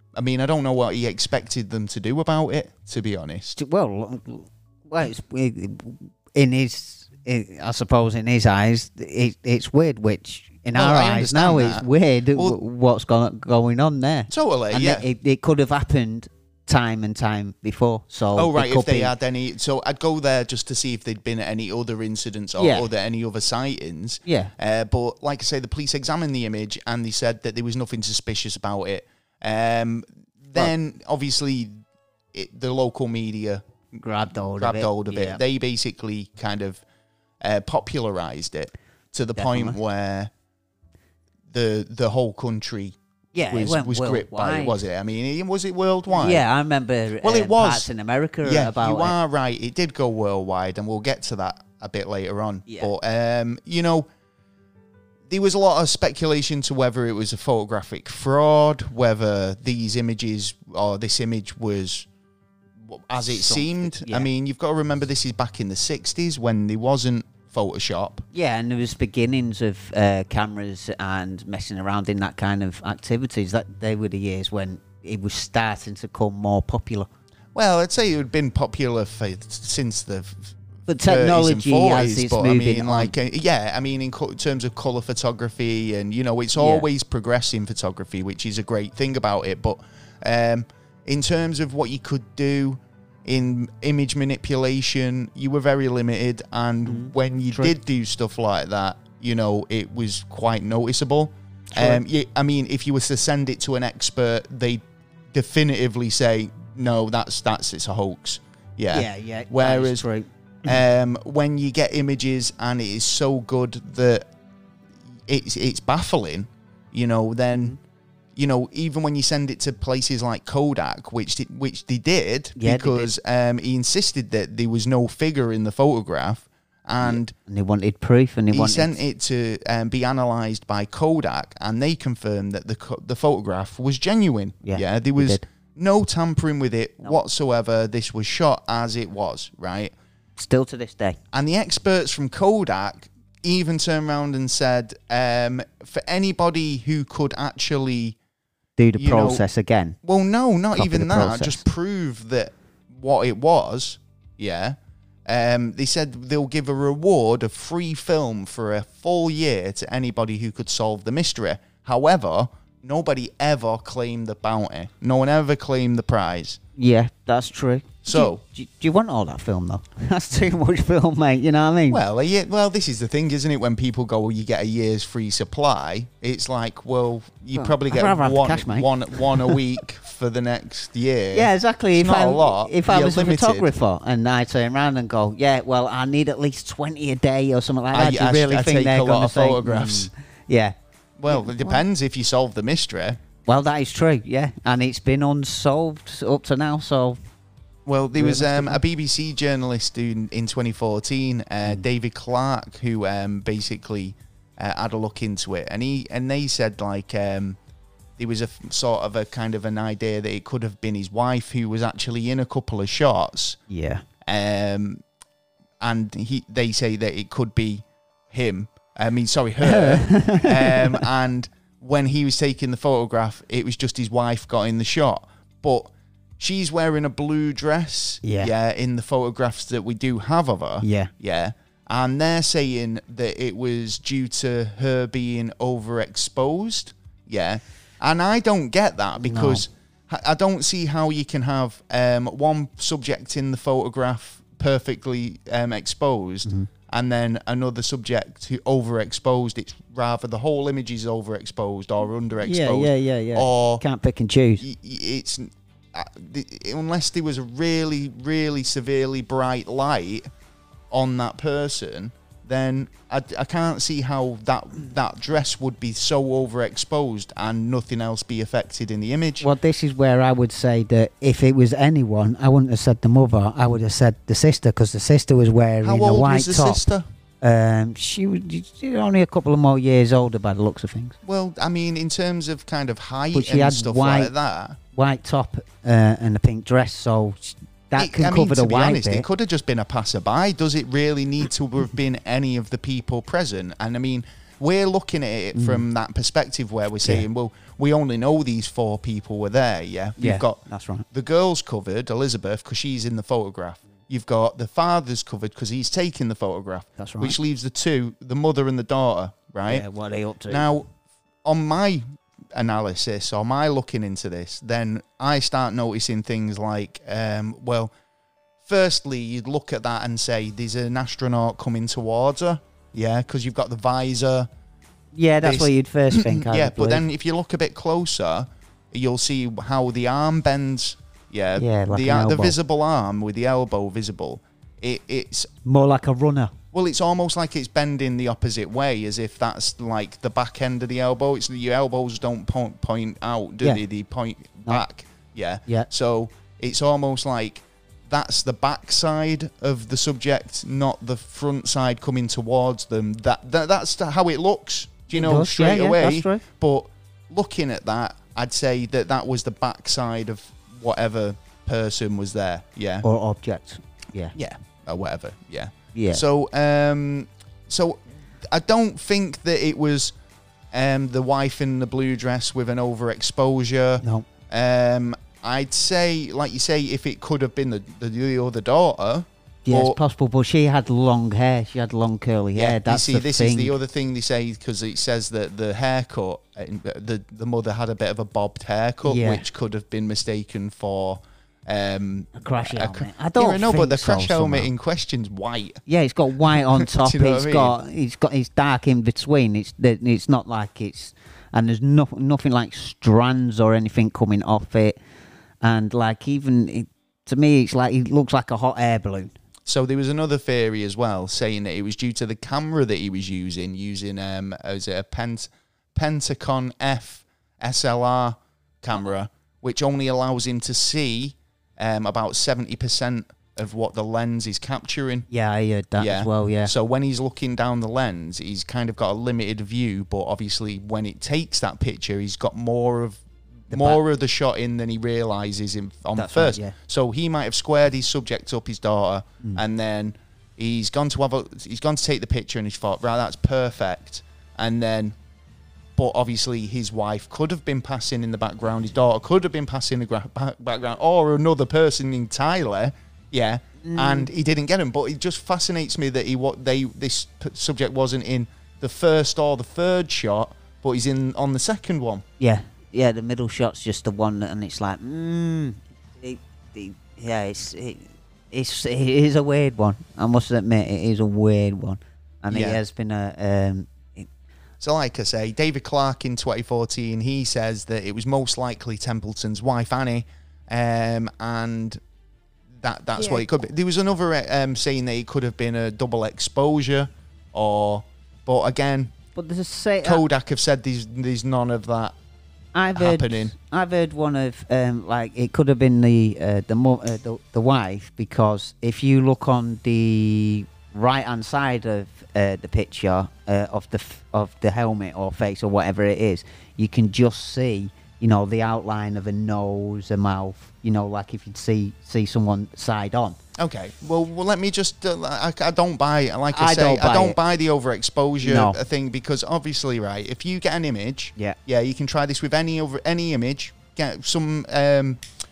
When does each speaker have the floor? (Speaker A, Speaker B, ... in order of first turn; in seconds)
Speaker A: 0.1-3.6, 10.7-12.6, 14.3-15.0, 18.4-31.8, 32.3-33.6, 34.6-36.8, 37.4-40.3, 41.5-43.0, 43.5-46.4, 47.2-47.9, 48.4-54.1, 55.3-62.1, 62.8-68.2, 77.5-110.0, 110.6-114.2, 115.3-117.7, 118.3-127.3, 128.5-139.9, 141.3-148.2, 148.9-149.4, 150.0-166.6, 168.0-168.4, 171.9-183.7, 187.9-190.1, 191.2-193.2, 197.8-207.6, 208.2-213.6, 214.2-215.0, 215.8-253.8, 254.6-260.3, 260.9-269.5, 275.8-277.1, 281.2-284.8, 287.9-309.8, 310.5-310.9, 311.4-317.9, 318.6-324.5, 325.4-335.5, 336.7-363.1, 364.3-370.1, 370.7-380.0, 382.5-395.8, 396.4-397.8, 409.6-425.3, 426.0-445.1, 445.9-462.2, 472.5-472.8, 474.8-482.0, 482.8-489.1, 490.0-492.1, 492.9-493.5, 513.6-525.2
Speaker B: 3.5-19.1, 22.6-22.9, 24.2-24.5, 33.9-35.4, 39.4-39.8, 43.3-44.8, 46.1-49.1, 52.7-52.9, 63.3-64.3, 68.3-77.1, 80.9-83.1, 86.5-86.8, 96.8-97.7, 101.7-102.0, 108.9-110.8, 122.6-123.1, 127.0-129.0, 134.6-135.4, 140.4-141.2, 148.8-150.0, 150.7-151.6, 166.8-172.0, 177.5-179.6, 181.3-190.7, 191.3-191.8, 193.4-197.2, 198.2-198.8, 213.7-214.0, 219.6-221.1, 228.2-228.5, 230.8-231.1, 239.2-239.6, 252.4-254.7, 269.4-276.8, 277.4-281.1, 283.3-284.3, 284.9-289.2, 295.5-295.8, 300.2-301.0, 307.0-307.4, 309.7-310.7, 325.1-327.0, 331.6-332.6, 335.6-336.5, 355.1-356.4, 363.0-364.3, 365.9-366.2, 379.6-383.8, 389.0-389.4, 392.4-394.7, 395.9-405.0, 405.6-409.3, 425.3-426.7, 433.7-434.0, 436.1-436.7, 453.8-454.3, 462.4-474.3, 489.4-490.2, 492.7-513.4, 516.5-517.4, 518.4-518.8